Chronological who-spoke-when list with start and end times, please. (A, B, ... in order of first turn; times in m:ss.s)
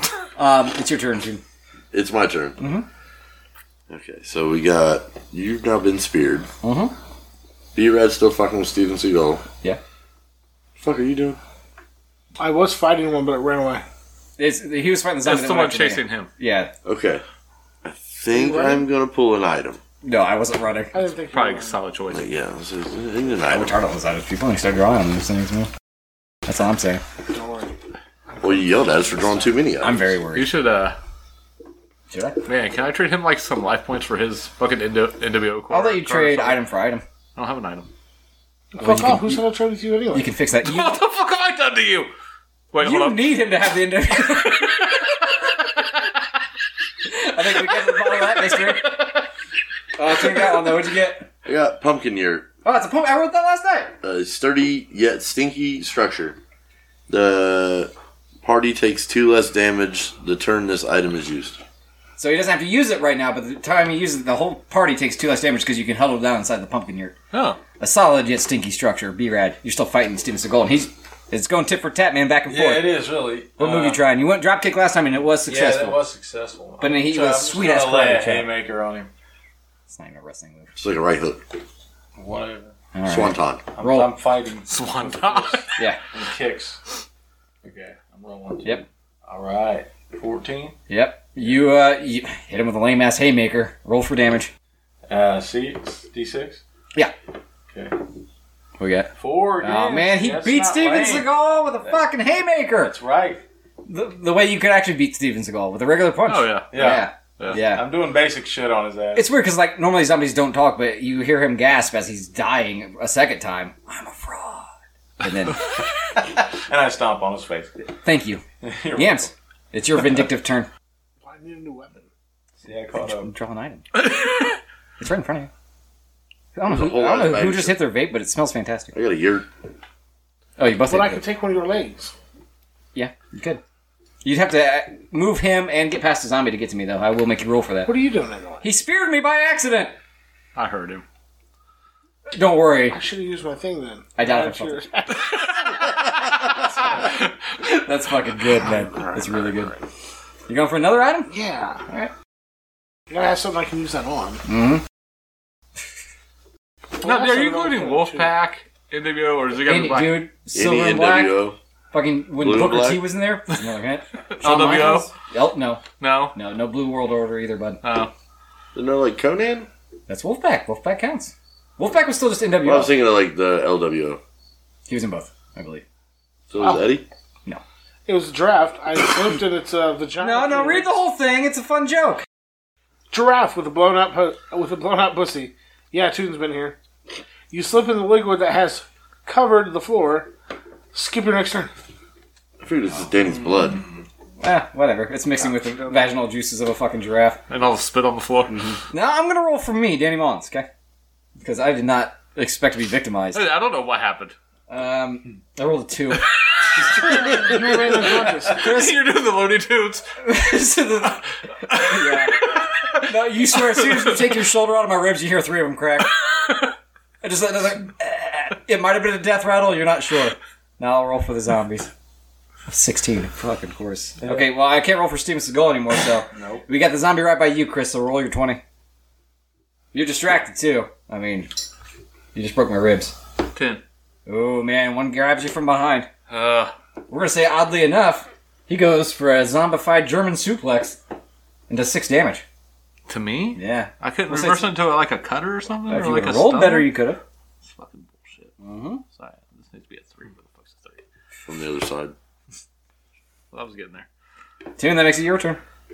0:00.4-0:01.4 A
0:01.9-0:02.6 B
0:02.6-0:02.9 A
0:03.9-0:06.5 B
0:06.6-0:06.9 A
0:07.8-0:09.4 B
0:10.8-0:11.4 B
0:12.4-0:13.8 C
0:14.4-0:16.7 A
0:15.2-0:16.3 D
0:16.8-0:17.2 B
0:17.8-0:19.8 B
0:18.3-0:18.9 C
0:20.0-0:21.0 A
0:20.9-0:21.8 C
0:21.3-0:22.3 D
0:22.1-0:23.8 B
0:23.5-0:25.7 A
0:26.5-0:27.0 A
0:27.3-0:27.7 C
0:28.3-0:29.1 C
0:28.4-0:30.0 B
0:29.8-0:30.5 A
0:30.4-0:31.0 D
0:32.1-0:32.4 A
0:32.5-0:36.6 D
0:35.7-0:37.0 A
0:37.4-0:37.9 D
0:38.8-0:40.3 C
0:38.8-0:39.4 A
0:40.1-0:41.0 A
0:40.6-0:42.1 D
0:42.7-0:43.4 D
0:42.8-0:45.0 A
0:44.6-0:45.2 D
0:47.1-0:49.0 A
0:47.7-0:49.2 D
0:50.0-0:51.3 A
0:51.4-0:52.5 B
0:52.6-0:54.0 A
0:54.0-0:56.4 B
0:57.1-0:57.9 B
0:58.4-1:01.6 B
1:02.2-1:07.2 A
1:07.3-1:07.6 D
1:07.8-1:13.0 A
1:12.5-1:14.1 E
1:13.6-1:16.0 A
1:15.5-1:19.1 E
1:16.8-1:18.5 A
1:19.9-1:20.7 A
1:20.8-1:21.4 B
1:22.2-1:22.7 E
1:22.9-1:24.2 A
1:23.1-1:23.6 B
1:23.8-1:26.8 E
1:24.7-1:25.8 D
1:27.6-1:30.8 E
1:30.9-1:34.5 A
1:35.1-1:36.6 E
1:38.8-1:43.0 A
1:39.2-1:41.3 E
1:42.8-1:43.4 E
1:43.9-1:47.8 A
1:46.3-1:47.6 D
1:46.7-1:49.3 E
1:49.2-1:54.7 A
1:55.2-1:55.7 A
1:56.2-1:57.7 E
1:57.9-1:58.4 A
1:58.6-1:59.3 E
1:58.9-2:00.7 A
2:01.2-2:02.0 C
2:02.6-2:03.3 E
2:03.0-2:04.1 A
2:04.0-2:04.5 D
2:05.0-2:05.5 A
2:06.6-2:08.9 A
2:06.7-2:07.8 B
2:08.9-2:09.5 B
2:10.6-2:11.2 A
2:10.9-2:12.1 C
2:13.0-2:13.6 A
2:14.2-2:17.9 A
2:17.8-2:18.7 C
2:18.6-2:20.0 A
2:20.6-2:21.0 D
2:22.3-2:23.0 A
2:22.9-2:25.9 C
2:24.2-2:24.8 A
2:26.3-2:27.3 D
2:27.8-2:29.7 A
2:30.5-2:31.3 A
2:31.3-2:31.8 C
2:33.1-2:34.4 C
2:34.5-2:34.8 A
2:37.0-2:38.3 C
2:37.0-2:40.3 D
2:39.7-2:41.4 A
2:40.5-2:41.6 B
2:41.9-2:45.8 A
2:42.4-2:43.1 B
2:44.3-2:45.1 D
2:46.0-2:46.4 D
2:46.3-2:47.8 A
2:47.8-2:48.1 D
2:48.8-2:49.7 B
2:50.1-2:52.9 A
2:52.6-2:54.2 B
2:54.9-2:55.8 A
2:56.5-2:57.1 B
2:56.6-2:57.0 C
2:58.1-3:01.0 C
3:00.2-3:02.2 A
3:03.1-3:06.8 C
3:07.5-3:10.3 C
3:10.9-3:11.7 C
3:12.6-3:13.8 B
3:14.4-3:17.4 A
3:15.4-3:16.1 C
3:17.5-3:18.5 D
3:18.5-3:20.7 A
3:21.4-3:23.4 A
3:23.4-3:24.4 D
3:24.7-3:26.3 A
3:26.7-3:30.1 D
3:26.9-3:28.6 C
3:28.6-3:29.1 A
3:30.2-3:36.1 A
3:31.7-3:33.0 D
3:33.5-3:34.3 D
3:36.3-3:36.7 D
3:37.2-3:41.9 A
3:42.7-3:48.6 A
3:44.2-3:44.5 E
3:46.3-3:46.6 E
3:49.9-3:51.5 A
3:52.4-3:53.2 A
3:53.6-3:53.8 D
3:54.3-3:56.1 A
3:56.3-3:56.7 D
3:57.1-4:01.0 A
4:01.7-4:02.4 A
4:03.1-4:07.0 D
4:03.6-4:04.8 A
4:05.9-4:07.2 A
4:07.6-4:08.5 D
4:08.6-4:09.0 A
4:09.2-4:11.0 D
4:11.5-4:12.1 B
4:13.5-4:14.1 D
4:14.8-4:15.6 A